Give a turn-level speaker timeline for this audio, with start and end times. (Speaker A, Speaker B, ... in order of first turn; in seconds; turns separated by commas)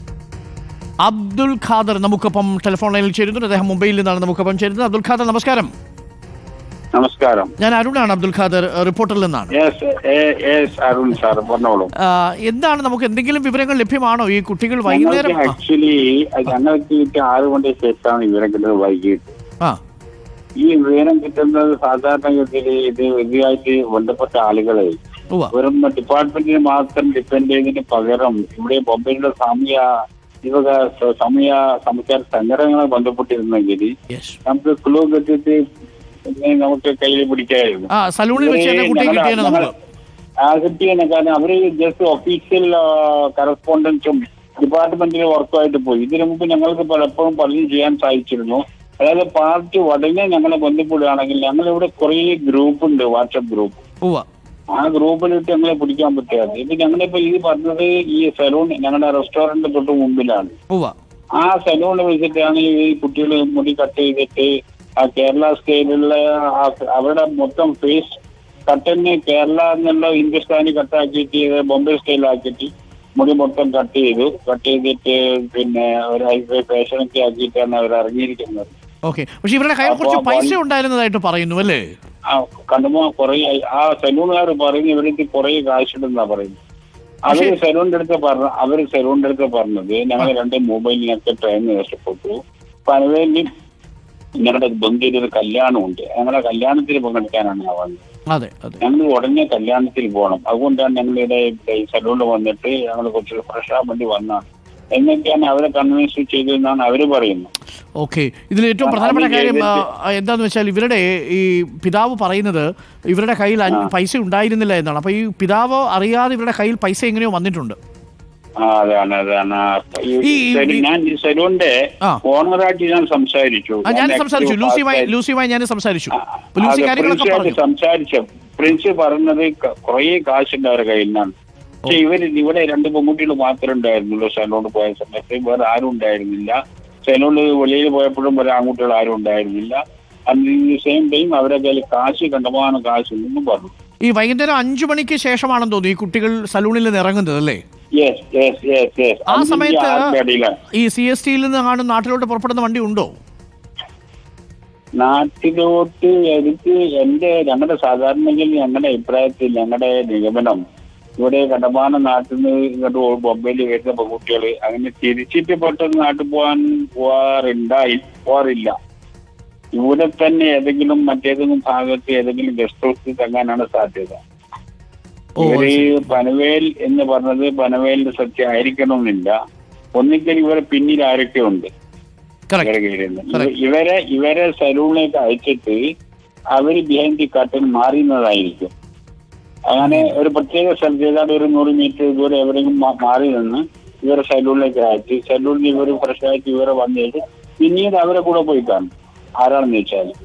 Speaker A: 1.0-5.7, Speaker B: 7.0-7.5, Speaker A: 7.6-9.5, Speaker B: 9.5-11.9, Speaker A: 12.0-15.5, Speaker B: 14.9-19.3, Speaker B: 20.6-24.9, Speaker B: 25.5-29.9, Speaker B: 30.4-33.9, Speaker A: 34.1-34.4, Speaker B: 34.5-35.6, Speaker B: 36.2-39.7, Speaker A: 37.9-39.7, Speaker B: 40.4-53.8, Speaker B: 54.7-60.5, Speaker B: 61.4-78.7, Speaker A: 79.1-81.8, Speaker B: 79.8-80.6, Speaker B: 82.3-86.6, Speaker B: 87.3-93.5, Speaker A: 87.3-87.5, Speaker B: 94.4-98.0, Speaker A: 98.3-98.8, Speaker B: 98.8-107.5, Speaker A: 108.0-117.8, Speaker B: 108.8-109.8, Speaker B: 118.6-121.7, Speaker A: 120.2-120.8, Speaker B: 122.2-125.1, Speaker A: 123.8-127.6, Speaker B: 126.1-131.3, Speaker B: 131.8-143.7, Speaker A: 144.1-147.6, Speaker B: 148.0-150.5, Speaker A: 149.3-150.1, Speaker A: 150.8-153.1, Speaker B: 155.0-160.6, Speaker B: 161.2-168.7, Speaker B: 169.8-174.2, Speaker A: 175.4-176.0, Speaker B: 175.4-179.3, Speaker B: 180.0-181.7, Speaker B: 182.6-185.8, Speaker B: 186.5-188.7, Speaker B: 189.7-198.9, Speaker A: 189.8-190.1, Speaker B: 199.4-200.1